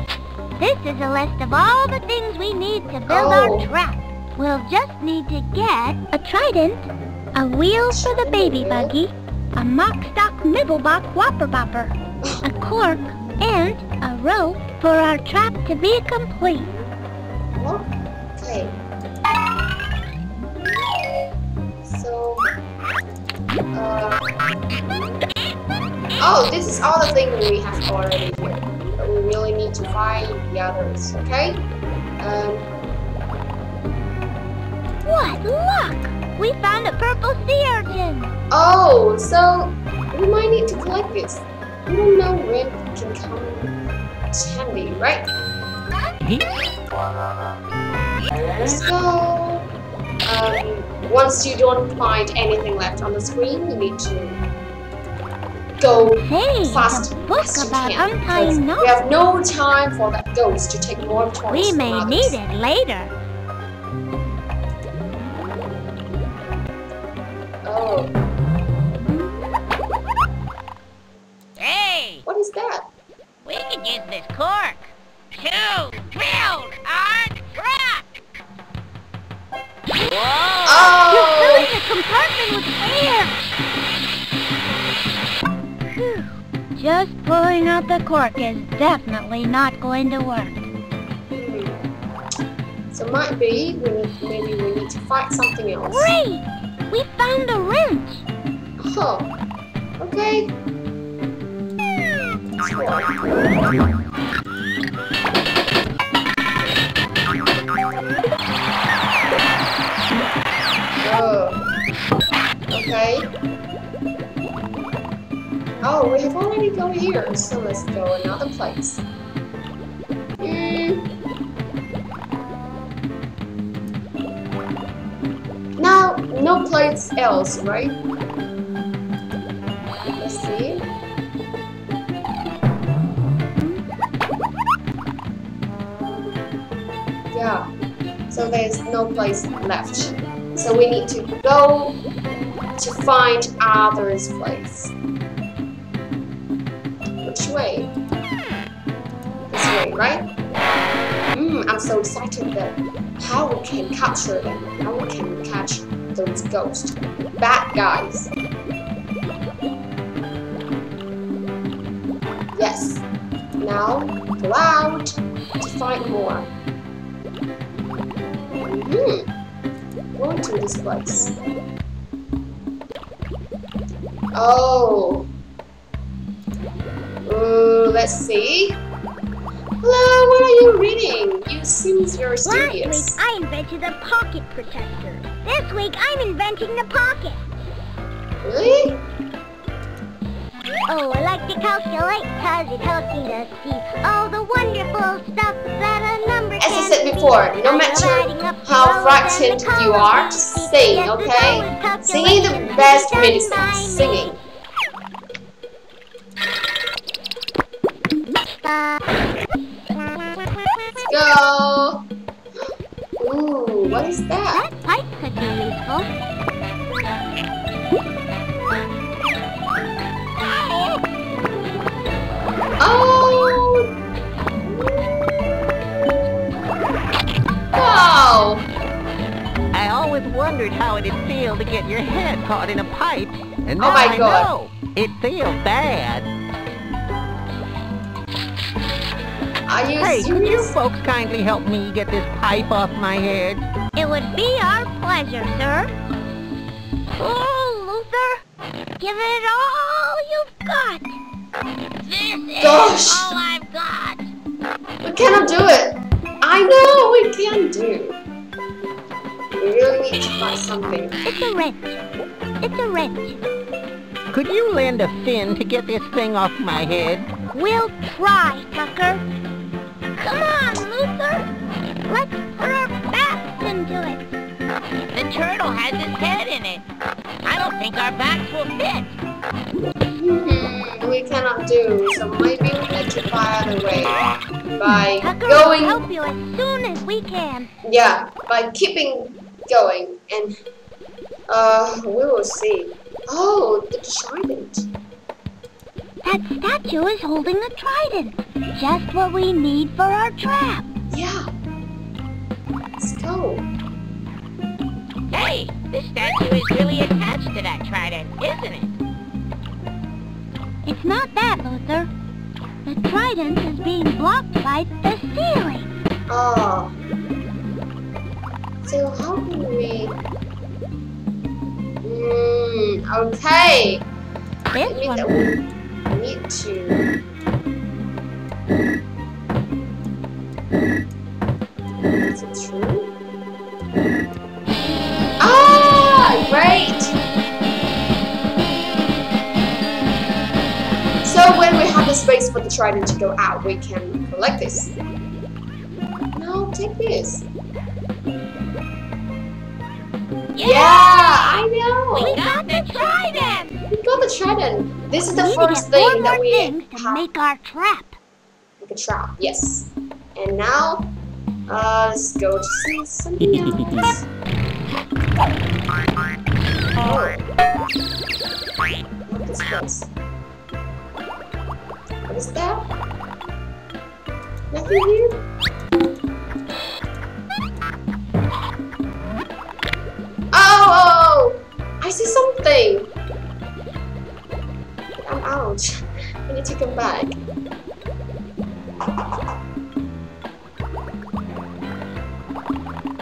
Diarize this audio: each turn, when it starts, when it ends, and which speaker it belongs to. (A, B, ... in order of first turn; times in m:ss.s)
0:00.6-0:16.7 A
0:03.1-0:03.7 B
0:07.9-0:08.9 B
0:17.5-0:18.8 B
0:21.8-0:22.4 B
0:23.7-0:24.2 B
0:26.2-0:31.6 B
0:32.2-0:32.7 B
0:35.0-0:38.3 A
0:38.5-0:43.7 B
0:44.3-0:45.3 B
0:48.6-0:49.6 B
0:50.2-0:54.4 B
0:55.8-1:02.4 B
0:56.2-0:59.0 A
1:01.5-1:03.1 A
1:07.6-1:08.1 B
1:11.6-1:12.2 C
1:12.2-1:12.9 B
1:13.4-1:18.2 C
1:20.0-1:21.0 C
1:20.6-1:21.7 B
1:21.1-1:23.5 A
1:25.9-1:30.6 A
1:31.3-1:31.8 B
1:32.9-1:36.1 B
1:35.9-1:38.2 A
1:38.8-1:39.3 B
1:40.0-1:40.5 B
1:42.6-1:43.2 B
1:51.0-1:51.6 B
1:52.7-1:53.3 B
1:55.8-1:59.0 B
2:00.4-2:01.1 B
2:05.8-2:08.0 B
2:10.2-2:10.9 B
2:17.3-2:17.7 B
2:18.3-2:22.0 B
2:22.8-2:24.9 B
2:27.2-2:27.9 B
2:29.5-2:30.3 B
2:31.3-2:38.3 B
2:42.5-2:43.0 B
2:43.6-2:46.5 B
2:48.6-2:49.3 B
2:50.2-2:51.4 B
2:54.3-2:55.3 B
2:57.2-2:58.8 B
2:59.8-3:03.2 B
3:02.4-3:07.4 A
3:08.4-3:09.0 B
3:10.9-3:24.3 A
3:16.6-3:24.4 B
3:28.5-3:29.0 A
3:31.1-3:32.0 B
3:32.6-3:34.6 B
3:34.5-3:36.1 A
3:42.8-3:43.9 B
3:44.6-3:46.1 B
3:47.7-3:48.7 B
3:49.7-3:56.3 D
3:53.8-3:54.5 B
3:59.7-4:00.7 B
4:00.0-4:03.6 D
4:04.0-4:05.9 A
4:07.1-4:08.4 A
4:09.0-4:11.2 A
4:12.0-4:14.3 C
4:12.6-4:13.3 B
4:15.0-4:18.2 B
4:19.6-4:21.2 B
4:21.2-4:22.0 A
4:22.6-4:23.4 A
4:24.3-4:27.3 D
4:27.5-4:29.2 A
4:30.2-4:31.5 A
4:32.1-4:34.2 A
4:35.1-4:36.8 C
4:37.4-4:39.2 C
4:40.1-4:46.0 B
4:45.2-4:47.7 A
4:47.8-4:50.6 B
4:51.5-4:54.9 B
4:56.2-5:00.9 A
5:01.1-5:01.5 B
5:03.0-5:03.6 B
5:05.3-5:09.0 C
5:10.8-5:12.1 A
5:12.8-5:15.9 A
5:16.3-5:16.9 B
5:18.8-5:20.2 B
5:22.0-5:24.0 B
5:24.7-5:25.3 A
5:24.8-5:27.1 B
5:32.2-5:33.1 B
5:35.4-5:37.1 B
5:41.2-5:45.0 B
5:46.3-5:47.5 B
5:50.5-5:51.6 C
5:50.6-5:52.4 B
5:52.1-5:53.7 C
5:52.3-5:53.6 A
5:53.9-5:57.2 B
5:55.3-5:58.1 A
5:58.8-6:01.1 B
6:01.7-6:04.2 B
6:07.0-6:07.4 B
6:09.3-6:10.1 B
6:12.3-6:12.9 B
6:14.7-6:15.4 B
6:20.5-6:23.1 B
6:25.2-6:27.4 B